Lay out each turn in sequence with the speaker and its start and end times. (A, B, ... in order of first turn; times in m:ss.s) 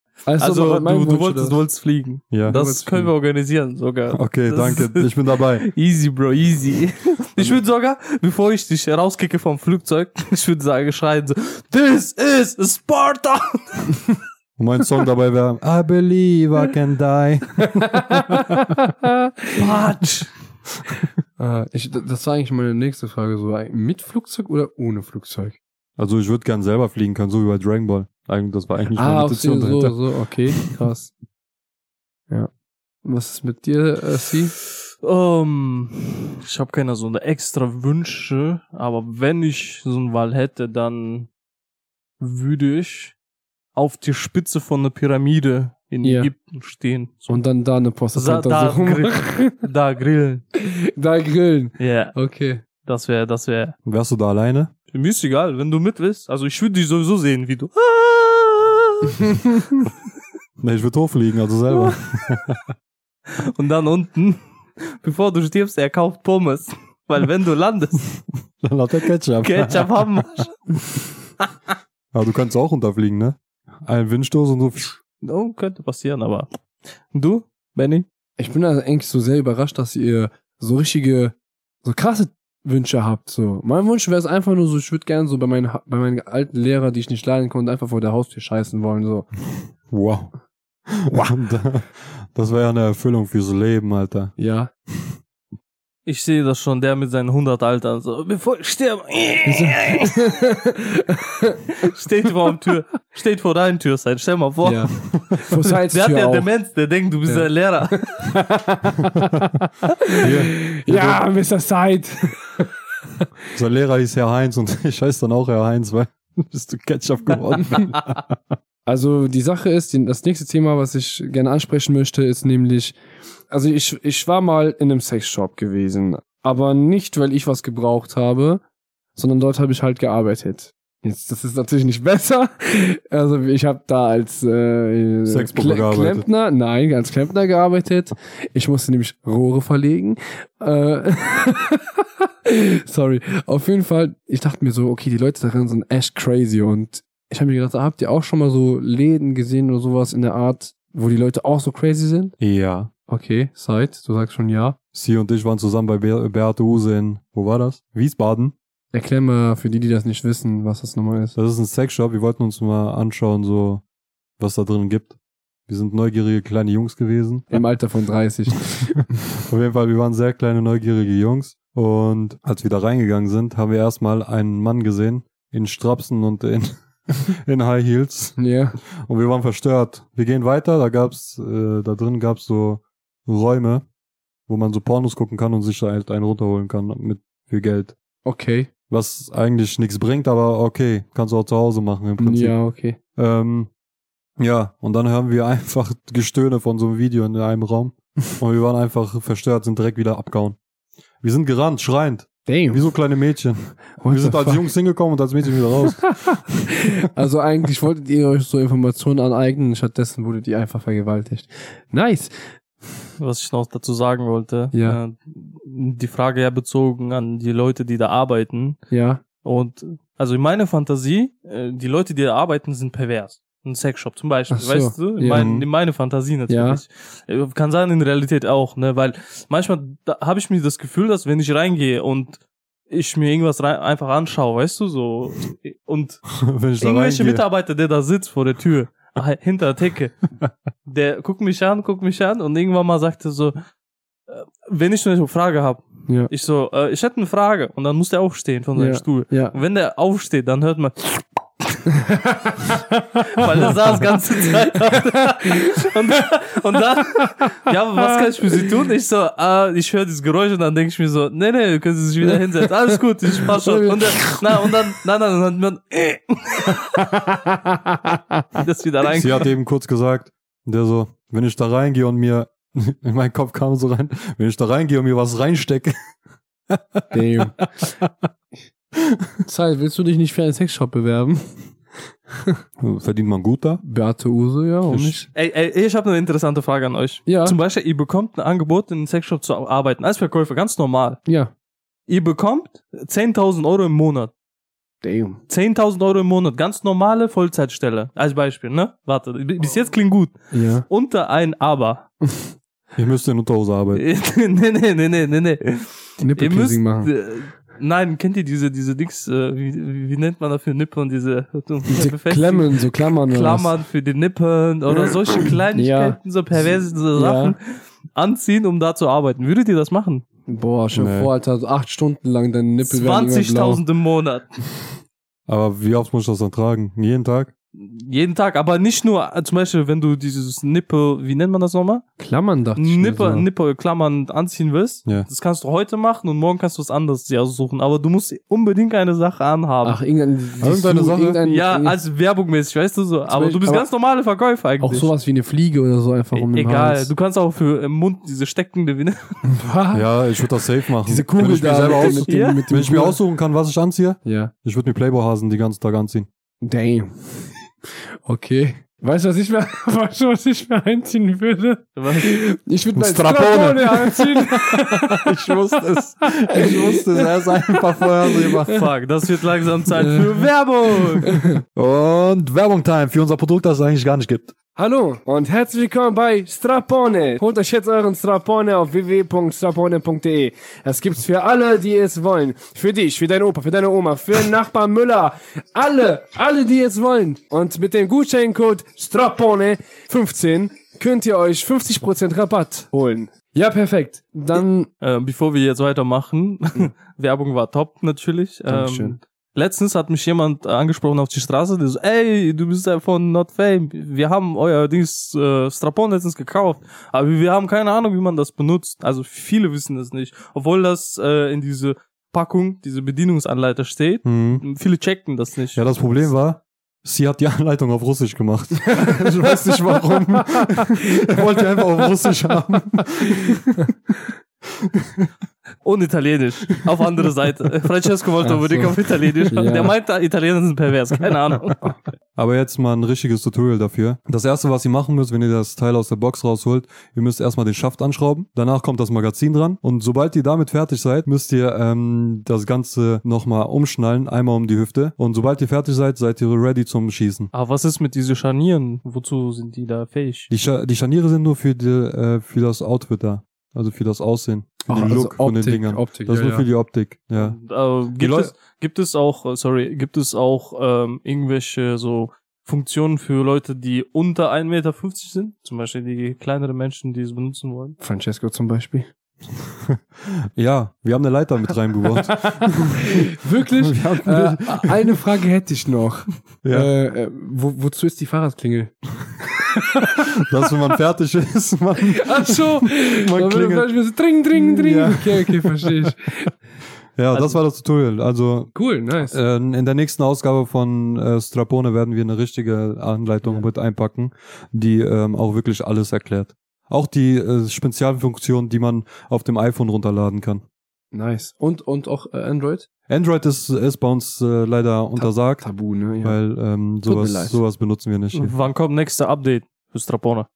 0:00.2-0:01.6 A
0:00.4-0:05.1 B
0:02.3-0:02.6 C
0:02.4-0:03.1 A
0:04.1-0:05.7 C
0:05.6-0:14.2 B
0:14.6-0:18.8 C
0:17.8-0:19.7 A
0:19.5-0:20.3 B
0:21.4-0:25.6 A
0:26.0-0:30.8 C
0:29.0-0:31.1 A
0:33.0-0:34.5 A
0:35.0-0:41.3 B
0:42.2-0:43.2 B
0:43.7-0:47.4 B
0:46.0-0:46.3 A
0:47.3-0:49.6 A
0:48.1-0:50.4 B
0:50.6-0:52.6 A
0:51.8-0:52.2 B
0:52.8-0:53.7 B
0:53.8-0:54.7 C
0:54.9-0:59.4 B
1:00.6-1:02.6 C
1:03.5-1:08.1 B
1:08.6-1:09.9 C
1:09.4-1:10.8 B
1:12.1-1:15.0 C
1:15.2-1:16.5 B
1:17.1-1:18.0 B
1:18.4-1:29.3 A
1:29.9-1:30.3 C
1:30.9-1:34.4 C
1:34.4-1:34.7 A
1:36.0-1:40.3 B
1:39.4-1:41.6 A
1:41.8-1:48.4 B
1:44.6-1:46.5 A
1:45.1-1:45.4 C
1:47.2-1:53.3 A
1:50.2-1:51.2 C
1:53.5-1:58.4 C
1:58.8-2:03.0 A
2:03.5-2:08.6 A
2:09.2-2:32.4 A
2:15.3-2:16.2 C
2:32.4-2:32.9 C
2:33.1-2:34.8 A
2:34.9-2:38.5 C
2:38.9-2:41.4 A
2:41.3-2:43.8 C
2:44.4-2:45.2 C
2:45.7-2:47.6 C
2:47.5-2:49.2 A
2:49.4-2:58.4 C
2:58.4-2:58.8 A
2:59.0-3:03.8 C
3:04.5-3:08.0 C
3:08.2-3:08.7 A
3:08.9-3:12.6 C
3:12.2-3:13.0 A
3:13.1-3:13.7 C
3:14.4-3:20.6 C
3:21.2-3:26.8 C
3:22.4-3:22.9 A
3:24.0-3:24.7 A
3:26.1-3:32.4 A
3:33.2-3:38.8 B
3:34.7-3:35.0 A
3:38.9-3:39.2 A
3:39.4-3:56.2 B
3:44.5-3:45.5 A
3:45.3-3:45.7 C
3:46.5-3:46.8 A
3:56.3-3:57.4 C
3:56.8-4:00.3 B
4:00.9-4:03.6 B
4:04.3-4:11.9 B
4:08.8-4:09.6 A
4:12.0-4:13.8 A
4:13.2-4:27.0 B
4:14.9-4:16.2 A
4:17.4-4:18.7 A
4:22.2-4:24.8 A
4:26.7-4:28.6 A
4:28.6-4:29.5 B
4:29.1-4:35.9 C
4:36.7-4:38.1 C
4:37.1-4:37.6 A
4:39.4-4:41.7 A
4:42.3-4:42.6 A
4:42.8-4:43.8 C
4:43.8-4:45.3 A
4:44.9-4:45.2 C
4:45.3-4:51.2 B
4:47.2-4:47.6 A
4:51.2-4:51.5 A
4:52.1-4:54.3 B
4:55.0-4:55.4 A
4:55.5-5:02.1 B
5:00.5-5:00.8 A
5:03.0-5:04.0 C
5:03.9-5:20.2 B
5:06.2-5:07.1 A
5:11.9-5:13.7 A
5:14.9-5:17.6 A
5:20.5-5:23.8 A
5:20.9-5:21.3 C
5:22.8-5:24.5 B
5:25.5-5:27.5 C
5:27.8-5:32.0 B
5:32.2-5:33.5 A
5:32.8-5:40.0 B
5:39.8-5:42.0 A
5:40.6-5:41.4 C
5:41.4-5:45.1 B
5:43.3-5:43.9 A
5:44.8-5:47.1 A
5:46.3-5:49.4 B
5:49.4-5:50.1 A
5:49.9-5:56.3 C
5:51.0-5:53.2 A
5:52.0-5:52.7 B
5:54.2-5:54.5 A
5:56.6-5:57.6 A
5:58.2-6:06.0 A
6:02.0-6:02.4 B
6:02.9-6:08.8 C
6:06.5-6:08.9 A
6:08.7-6:11.4 B
6:09.9-6:11.6 A
6:11.8-6:14.5 C
6:14.8-6:34.9 A
6:35.0-6:56.2 B
6:38.7-6:39.2 A
6:54.2-6:54.6 C
6:55.7-7:03.9 C
7:04.8-7:05.3 C
7:05.8-7:11.9 B
7:08.4-7:09.0 A
7:09.5-7:09.9 A
7:12.4-7:27.5 C
7:27.5-7:30.5 B
7:30.5-7:37.6 C
7:34.9-7:36.7 A
7:37.4-7:48.0 B
7:38.2-7:38.5 C
7:48.0-7:49.1 A
7:49.8-7:55.2 C
7:52.3-8:00.2 A
7:56.6-7:56.9 C
8:00.4-8:03.9 C
8:02.1-8:06.5 A
8:04.5-8:06.0 C
8:07.2-8:20.6 C
8:08.7-8:09.4 A
8:21.1-8:22.9 A
8:23.1-8:25.6 C
8:25.2-8:26.4 A
8:26.2-8:28.5 C
8:27.0-8:27.6 A
8:28.3-8:30.5 B